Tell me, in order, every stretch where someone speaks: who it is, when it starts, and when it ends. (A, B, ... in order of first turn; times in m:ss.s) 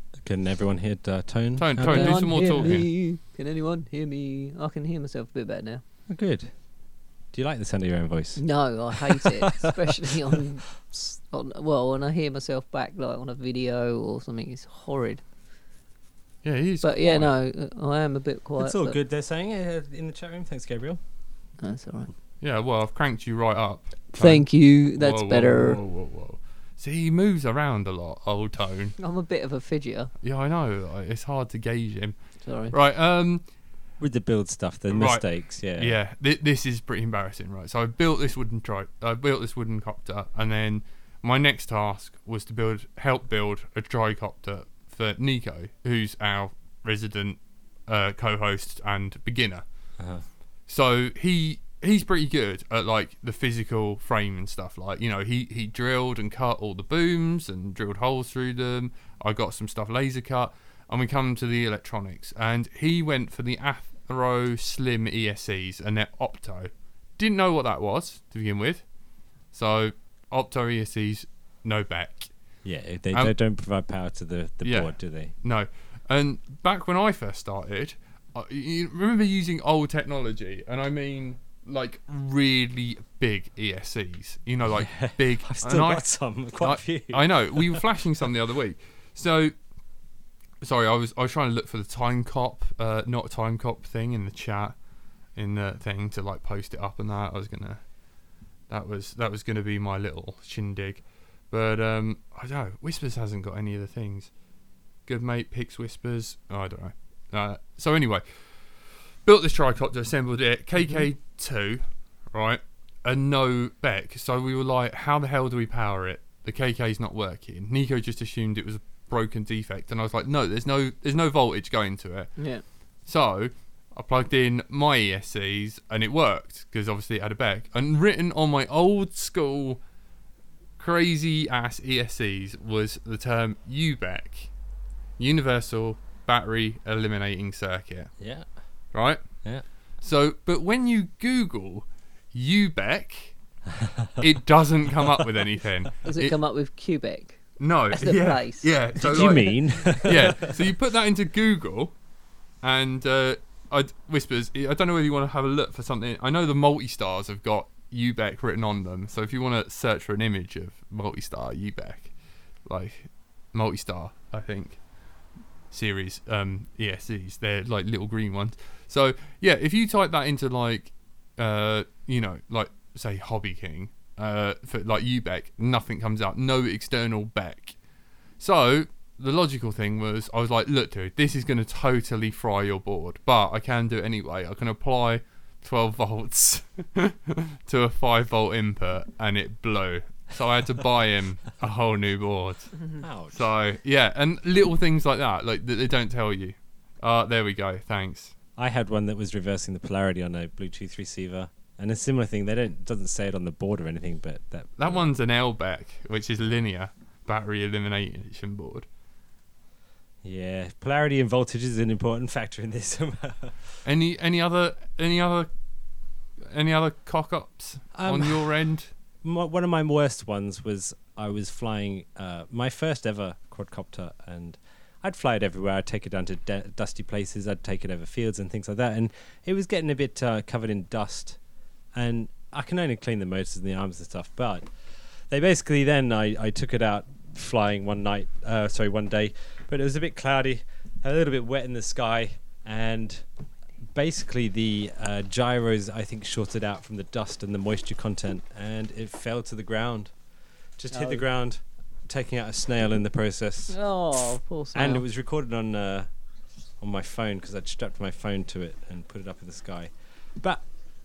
0:00.2-0:02.8 A
0:01.6-0:02.9 B
0:01.8-0:05.8 C
0:06.1-0:06.5 A
0:07.3-0:08.4 A
0:08.4-0:15.2 C
0:09.0-0:09.7 A
0:16.4-0:17.3 B
0:16.8-0:19.0 C
0:18.6-0:21.0 A
0:21.6-0:22.1 C
0:22.4-0:28.9 B
0:24.2-0:25.8 C
0:29.0-0:30.1 C
0:30.2-0:32.2 B
0:32.4-0:32.7 C
0:32.7-0:33.4 B
0:34.0-0:36.0 A
0:34.9-0:49.6 B
0:50.0-0:50.2 A
0:50.7-1:08.8 B
1:09.5-1:12.3 B
1:12.6-1:15.3 A
1:14.6-1:26.0 B
1:24.7-1:27.8 A
1:26.6-1:29.5 B
1:30.6-1:34.8 B
1:35.4-1:37.8 B
1:38.7-1:44.3 B
1:45.1-1:48.2 B
1:49.2-2:02.3 B
2:02.4-2:02.6 C
2:03.0-2:09.8 B
2:10.8-2:14.5 B
2:15.2-2:18.1 B
2:18.2-2:18.4 A
2:18.9-2:19.2 B
2:20.0-2:23.3 B
2:23.8-2:24.1 A
2:24.2-2:26.4 B
2:26.0-2:28.7 C
2:27.6-2:31.9 B
2:29.0-2:30.5 A
2:32.6-2:42.1 B
2:42.6-2:44.8 B
2:45.7-2:57.7 B
2:58.4-3:12.7 B
3:13.0-3:13.4 A
3:13.3-3:18.3 B
3:18.6-3:24.8 A
3:24.8-3:28.8 B
3:30.2-3:33.7 A
3:33.8-3:35.5 B
3:36.5-3:38.9 B
3:37.9-3:38.5 A
3:39.2-3:51.4 A
3:51.9-4:03.2 A
4:03.9-4:10.1 A
4:10.8-4:13.8 A
4:10.9-4:11.2 C
4:13.7-4:15.0 C
4:14.7-4:16.1 A
4:16.8-4:20.6 A